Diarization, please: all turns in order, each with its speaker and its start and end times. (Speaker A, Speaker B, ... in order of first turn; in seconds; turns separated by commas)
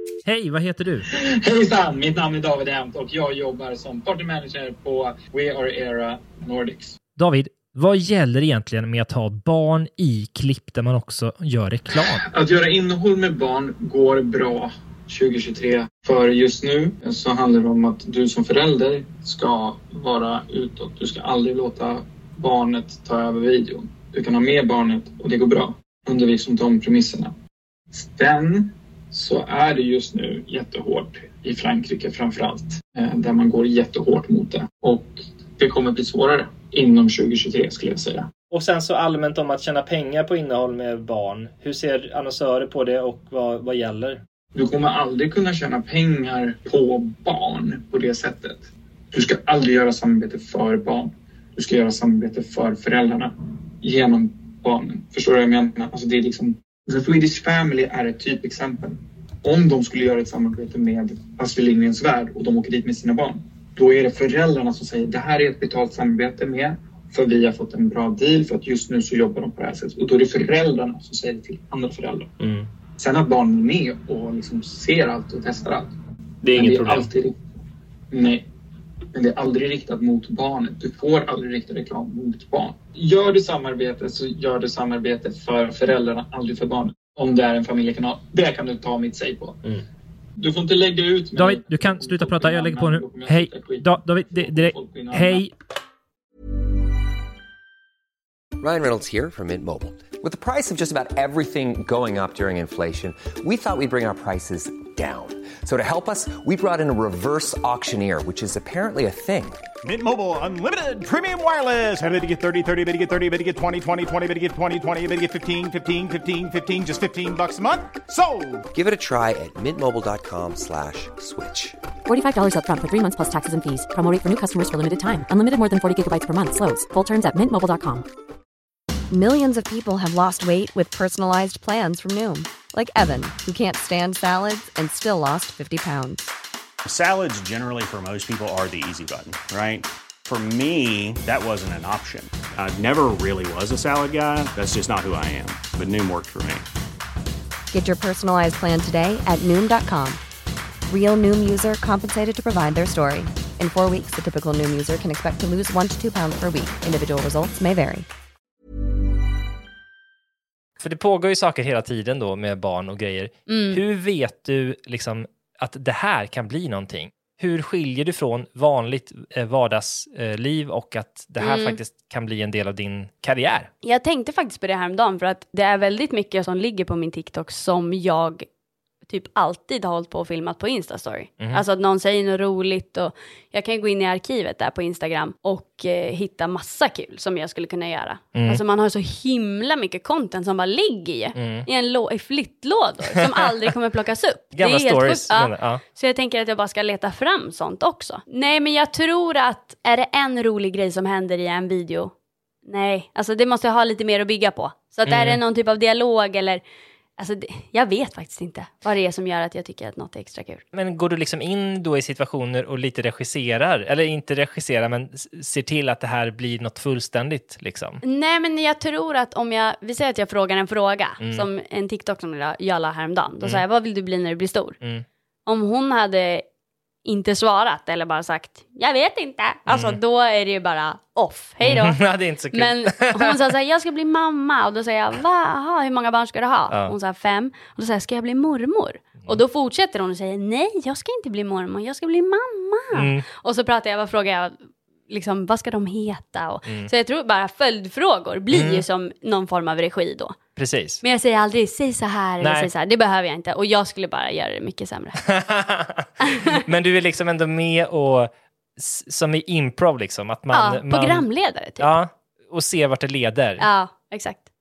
Speaker A: 0.2-1.1, Speaker B: 1.1-7.0, Speaker A: 7.2-12.2, Speaker B: 12.2-27.3, Speaker B: 27.9-38.3, Speaker A: 38.5-44.2, Speaker B: 44.5-72.3, Speaker A: 72.4-72.7, Speaker B: 73.0-75.9, Speaker A: 76.4-77.1, Speaker B: 76.5-77.4, Speaker B: 78.1-78.5, Speaker B: 79.1-89.6, Speaker B: 90.4-95.4, Speaker A: 91.4-95.5, Speaker C: 98.6-109.6, Speaker D: 109.8-118.7, Speaker C: 118.7-121.8, Speaker E: 122.1-128.1, Speaker F: 129.1-136.3, Speaker G: 136.9-146.7, Speaker F: 147.7-150.2, Speaker F: 150.9-158.1, Speaker A: 160.8-173.7, Speaker H: 163.5-163.8, Speaker H: 171.4-171.8, Speaker H: 173.8-178.5, Speaker H: 179.1-202.1, Speaker A: 188.3-188.6, Speaker A: 191.3-191.7, Speaker A: 194.6-195.8, Speaker H: 202.7-206.6, Speaker A: 205.1-205.4, Speaker H: 207.2-210.7, Speaker A: 210.7-218.0, Speaker H: 218.0-224.8, Speaker A: 221.2-221.5, Speaker H: 225.5-226.4, Speaker H: 227.1-232.0, Speaker A: 229.7-230.0, Speaker A: 231.6-233.5, Speaker H: 232.5-244.6, Speaker A: 242.9-243.3, Speaker H: 245.1-250.4, Speaker A: 248.5-248.8, Speaker A: 250.6-251.0, Speaker H: 251.0-255.2, Speaker A: 252.4-252.7, Speaker A: 255.2-261.3, Speaker H: 256.2-256.6, Speaker H: 260.5-261.9, Speaker A: 261.8-263.7, Speaker H: 263.6-264.4